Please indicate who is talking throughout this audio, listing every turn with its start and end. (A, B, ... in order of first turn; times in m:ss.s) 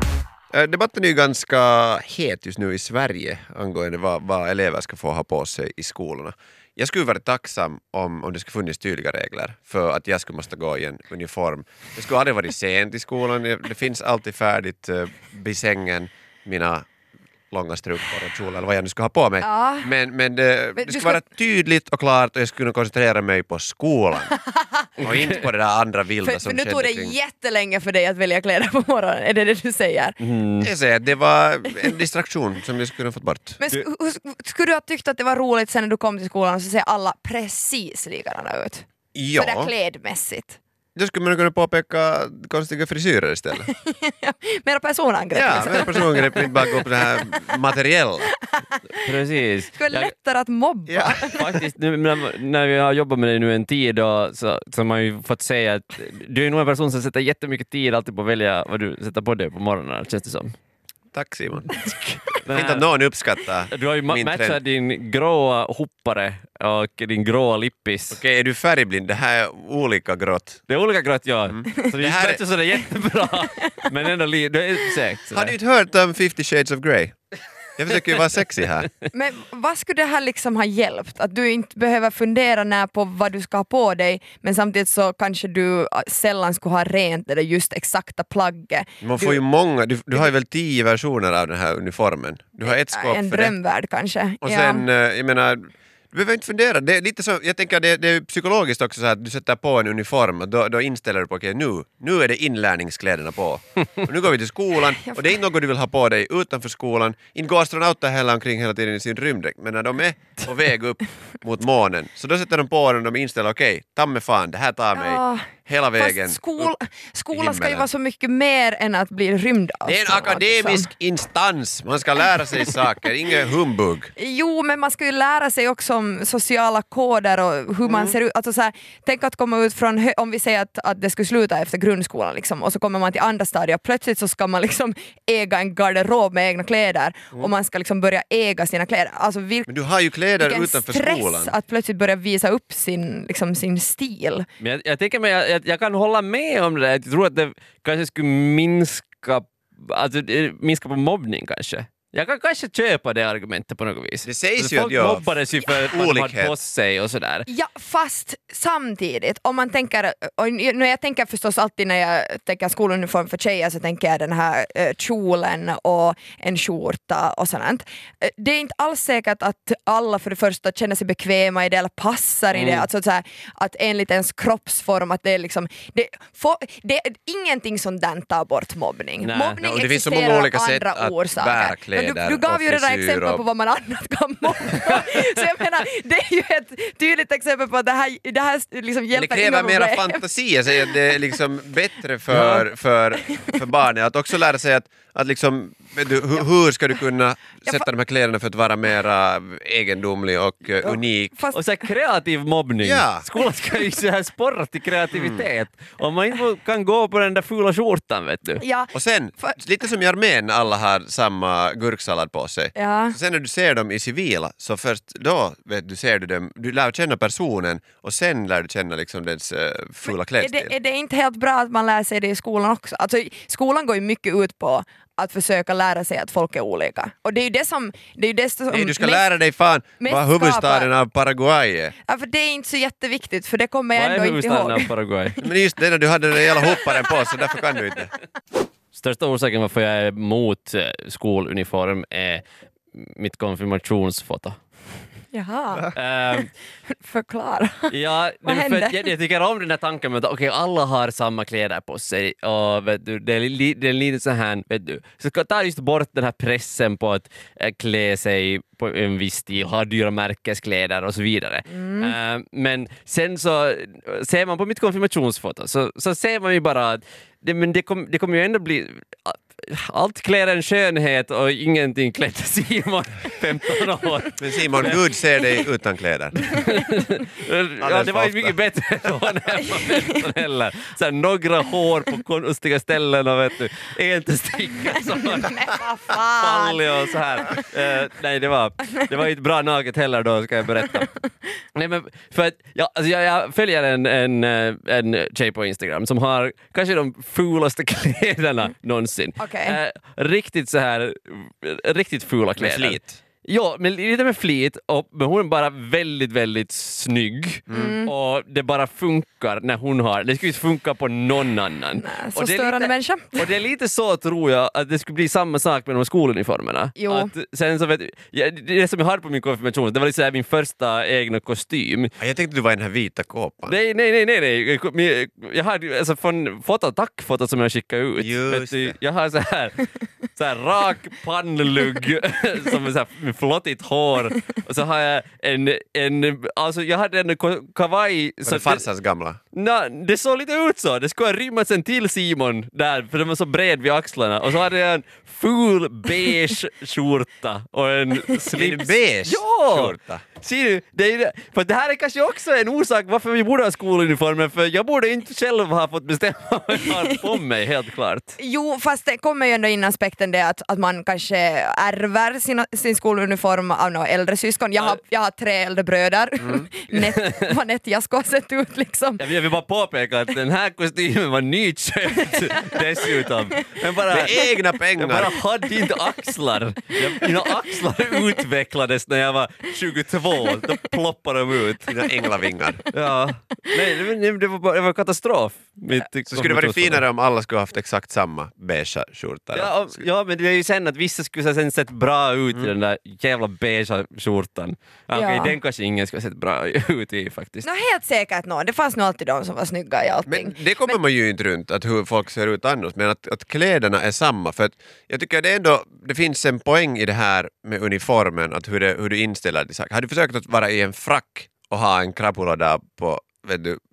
0:00.5-0:16.8 A
0:17.5-0:24.3 A
0:19.4-0:19.9 B
0:20.8-0:21.2 B
0:24.3-0:24.9 B
0:25.0-0:27.1 A
0:26.2-0:30.2 B
0:30.2-0:30.7 C
0:30.6-0:33.6 A
0:33.6-0:40.6 B
0:39.1-0:39.7 A
0:41.0-0:43.7 A
0:43.7-0:47.6 B
0:45.3-0:48.3 A
0:48.3-0:49.0 B
0:49.0-0:50.1 C
0:49.8-0:51.4 B
0:50.9-0:51.6 A
0:51.3-1:00.5 C
1:01.1-1:01.9 A
1:02.4-1:02.9 C
1:02.4-1:04.6 A
1:03.7-1:08.2 C
1:08.1-1:10.6 A
1:10.7-1:15.5 C
1:11.5-1:12.4 A
1:15.3-1:17.1 A
1:17.8-1:18.9 A
1:19.1-1:29.4 B
1:29.0-1:33.6 A
1:32.7-1:34.8 B
1:34.4-1:56.7 A
1:54.9-2:00.9 B
1:57.3-1:57.9 A
1:59.8-2:04.1 A
2:04.2-2:19.7 B
2:07.9-2:08.1 A
2:19.7-2:21.6 A
2:20.4-2:24.4 B
2:24.6-2:37.5 C
2:34.2-2:36.5 A
2:37.5-3:11.0 B
2:52.5-2:52.9 C
2:59.2-2:59.6 C
2:59.6-3:03.4 A
3:09.1-3:21.4 A
3:12.3-3:12.7 C
3:13.3-3:13.6 B
3:21.3-3:21.6 B
3:21.5-3:28.6 C
3:22.8-3:23.3 A
3:25.1-3:25.4 A
3:28.6-3:29.6 B
3:28.9-3:40.7 A
3:32.7-3:33.2 B
3:40.1-3:49.2 B
3:48.7-3:51.9 A
3:50.0-3:50.9 B
3:52.0-3:54.9 B
3:54.0-3:55.4 C
3:55.4-3:58.1 A
3:58.9-4:02.4 C
4:02.9-4:04.6 C
4:05.3-4:05.9 B
4:05.9-4:06.5 C
4:06.9-4:07.9 B
4:07.9-4:35.0 C
4:08.4-4:09.0 B
4:21.8-4:22.1 B
4:34.4-4:36.6 A
4:36.5-4:51.1 C
4:37.8-4:38.6 A
4:45.2-4:47.6 B
4:51.7-5:22.1 C
4:59.4-4:59.8 B
5:02.6-5:03.2 A
5:07.7-5:07.9 A
5:07.7-5:08.1 B
5:12.0-5:13.4 B
5:17.0-5:17.3 B
5:22.2-5:23.8 A
5:23.7-5:38.8 C
5:28.2-5:29.0 A
5:38.4-5:39.4 A
5:39.5-5:58.4 C
5:48.5-5:50.2 A
5:58.4-6:09.2 B
6:06.9-6:07.4 C
6:09.2-6:22.0 C
6:14.1-6:15.3 A
6:21.9-6:22.8 A
6:22.9-6:27.0 C
6:26.3-6:30.0 A
6:29.5-6:37.7 C
6:35.1-6:35.6 B
6:37.6-6:41.0 B
6:40.2-6:53.8 A